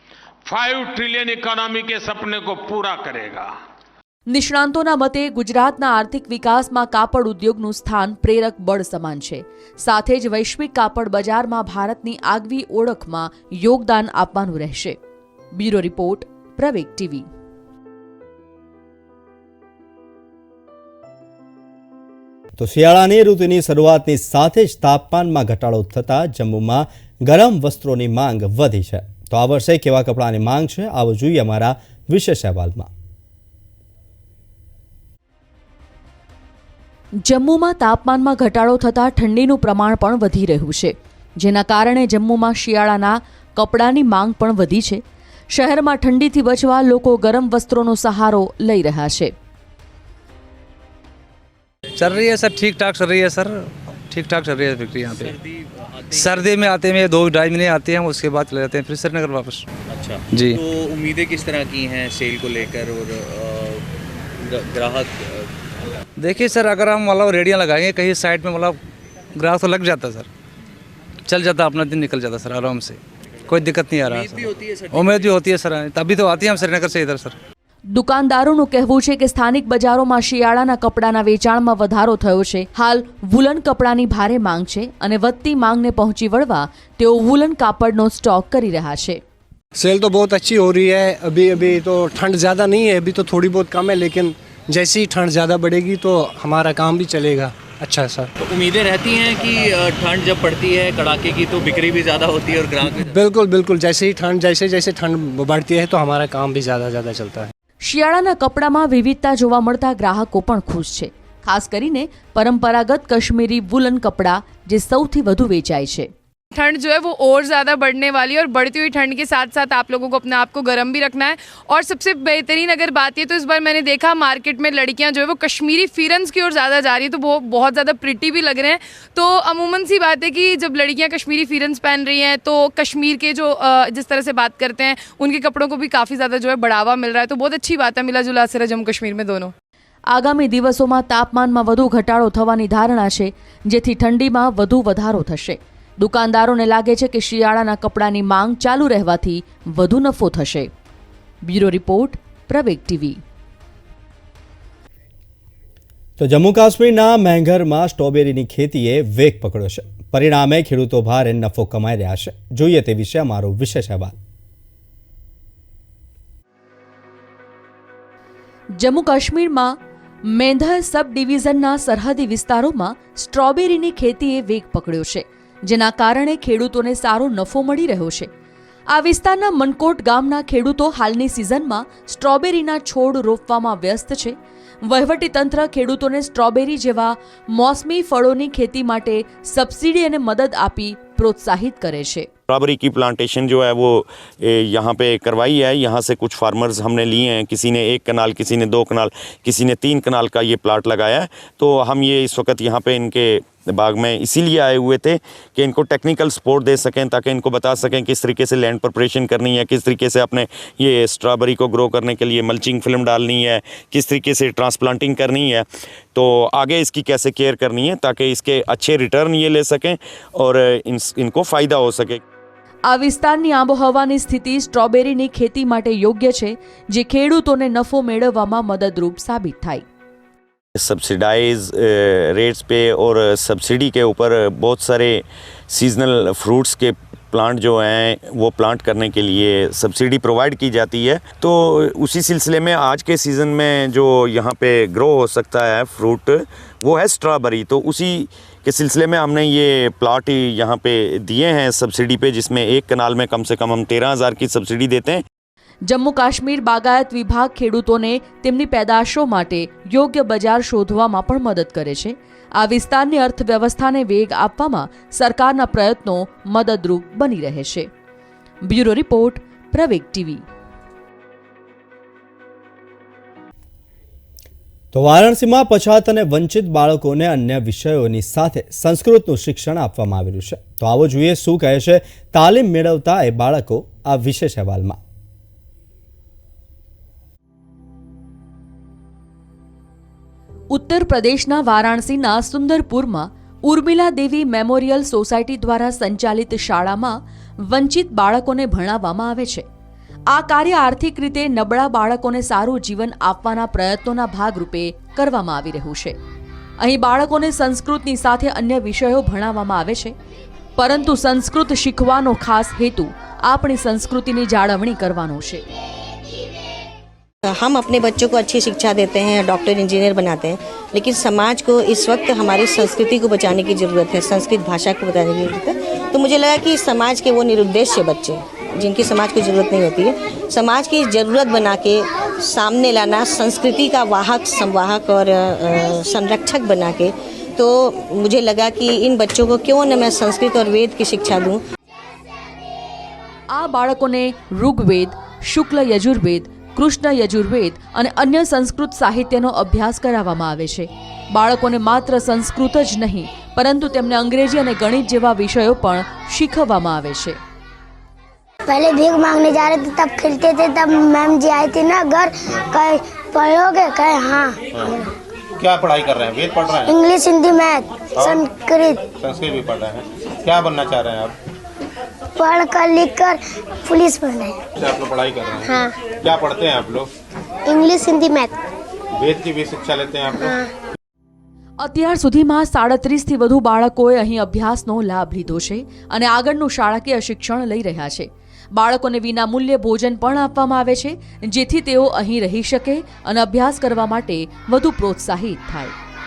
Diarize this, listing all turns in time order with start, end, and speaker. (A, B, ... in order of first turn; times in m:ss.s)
0:00.4-0:03.5 A
0:04.3-0:15.0 B
0:15.5-0:17.3 B
0:22.6-0:32.9 C
0:37.2-0:49.3 B
0:52.0-0:55.3 D
0:55.1-0:56.5 E
0:56.1-0:59.6 D
0:59.9-1:03.8 E
1:00.3-1:00.6 D
1:04.4-1:05.5 E
1:06.2-1:08.8 D
1:09.4-1:10.3 D
1:11.3-1:17.4 D
1:14.0-1:15.4 E
1:17.9-1:29.2 B
1:29.8-1:38.3 F
1:38.4-1:43.2 E
1:43.1-1:47.5 F
1:47.8-1:56.1 B
1:56.5-2:19.5 G
2:20.1-2:30.7 B
2:31.4-2:33.2 B
2:36.2-2:44.2 C
2:48.8-2:58.3 B
2:58.9-3:12.3 B
3:12.5-3:42.2 H
3:42.9-3:49.8 B
3:50.8-4:15.2 H
4:15.9-4:27.9 B
4:28.6-4:30.4 B
4:34.9-4:45.0 C
4:50.7-4:59.6 B
5:00.3-5:06.2 B
5:06.8-5:10.1 B
5:10.8-5:15.6 B
5:17.4-5:41.6 I
5:43.5-5:57.4 B
5:58.7-6:04.6 J
6:05.6-6:07.0 K
6:06.9-6:09.0 J
6:09.1-6:11.3 K
6:12.4-6:14.6 J
6:14.8-6:17.1 K
6:15.7-6:15.9 J
6:17.7-6:18.6 J
6:19.1-6:20.5 K
6:21.8-6:35.9 B